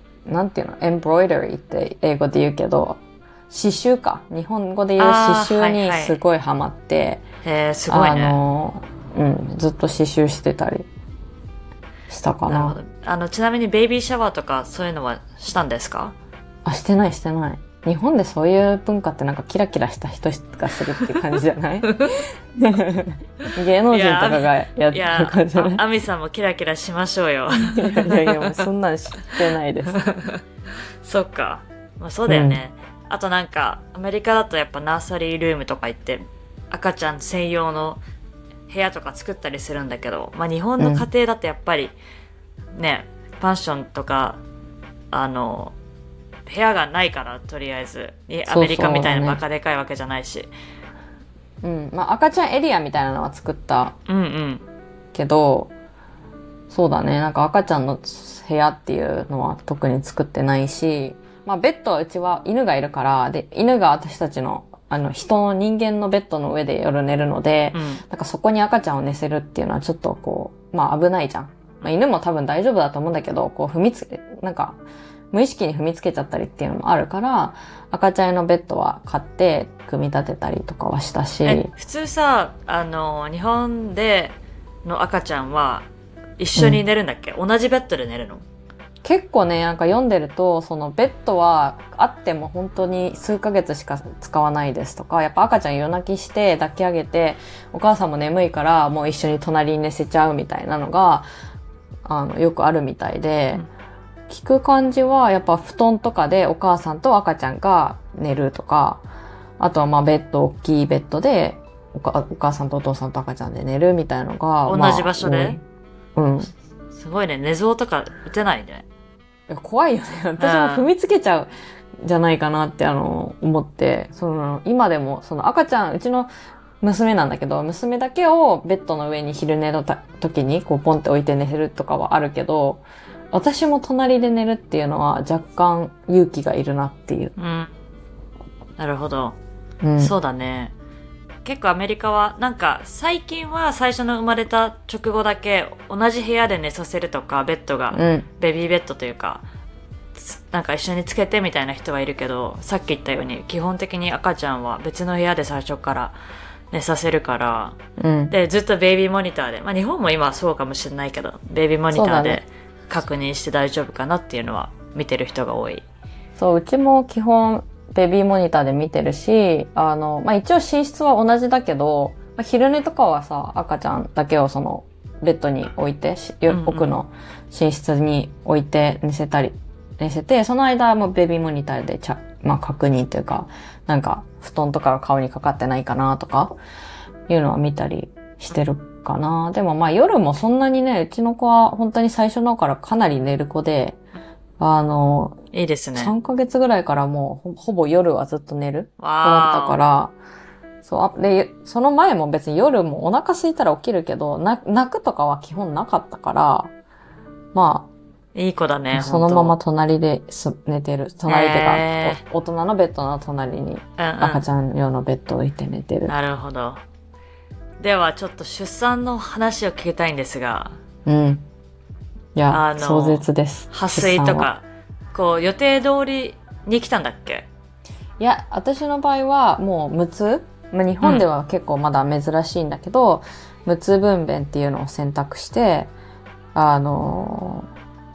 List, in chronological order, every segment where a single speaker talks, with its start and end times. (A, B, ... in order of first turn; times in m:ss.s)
0:00.3-0:07.2 A
0:05.0-0:06.2 B
0:07.4-0:08.4 B
0:07.9-0:10.9 A
0:12.1-0:12.8 A
0:12.5-0:16.2 B
0:16.6-0:25.8 A
0:21.9-0:22.2 B
0:23.5-0:28.4 B
0:27.7-0:30.0 A
0:30.0-0:30.4 B
0:31.0-0:38.0 B
0:32.3-0:32.6 A
0:38.7-0:42.0 B
0:40.8-0:41.1 A
0:42.7-0:44.4 B
0:45.1-0:45.8 B
0:46.5-0:50.5 B
0:48.5-0:49.4 A
0:51.6-0:54.0 A
0:54.1-0:54.6 B
0:55.1-0:55.7 A
0:56.7-1:14.8 A
1:07.7-1:08.0 B
1:15.3-1:21.7 A
1:21.4-1:25.9 B
1:26.4-1:28.4 B
1:29.0-1:41.3 A
1:42.0-1:43.6 A
1:44.3-1:49.0 A
1:49.6-1:55.6 A
1:54.7-1:55.6 B
1:56.2-1:56.5 A
1:56.9-1:58.8 B
1:59.5-2:01.5 A
2:00.4-2:00.9 B
2:02.0-2:06.3 A
2:06.8-2:17.3 A
2:17.4-2:17.7 B
2:18.8-2:19.4 B
2:19.8-2:20.2 A
2:20.0-2:20.7 B
2:21.4-2:29.4 B
2:27.9-2:28.3 A
2:30.2-2:36.2 B
2:36.7-2:37.8 B
2:38.0-2:38.3 A
2:38.3-2:45.8 B
2:41.9-2:42.4 A
2:46.4-3:06.6 A
2:56.5-2:57.0 B
3:07.3-3:14.0 A
3:14.6-3:15.4 A
3:15.5-3:16.1 B
3:16.0-3:20.2 A
3:19.0-3:19.8 B
3:20.8-3:26.7 A
3:27.5-3:27.9 A
3:28.4-3:29.6 B
3:28.9-3:36.1 A
3:31.3-3:32.2 B
3:34.0-3:34.4 B
3:36.1-3:36.8 B
3:37.8-3:40.8 B
3:41.1-3:41.5 A
3:42.4-3:44.5 A
3:42.5-3:47.5 B
3:48.2-3:55.9 A
3:56.5-3:57.7 A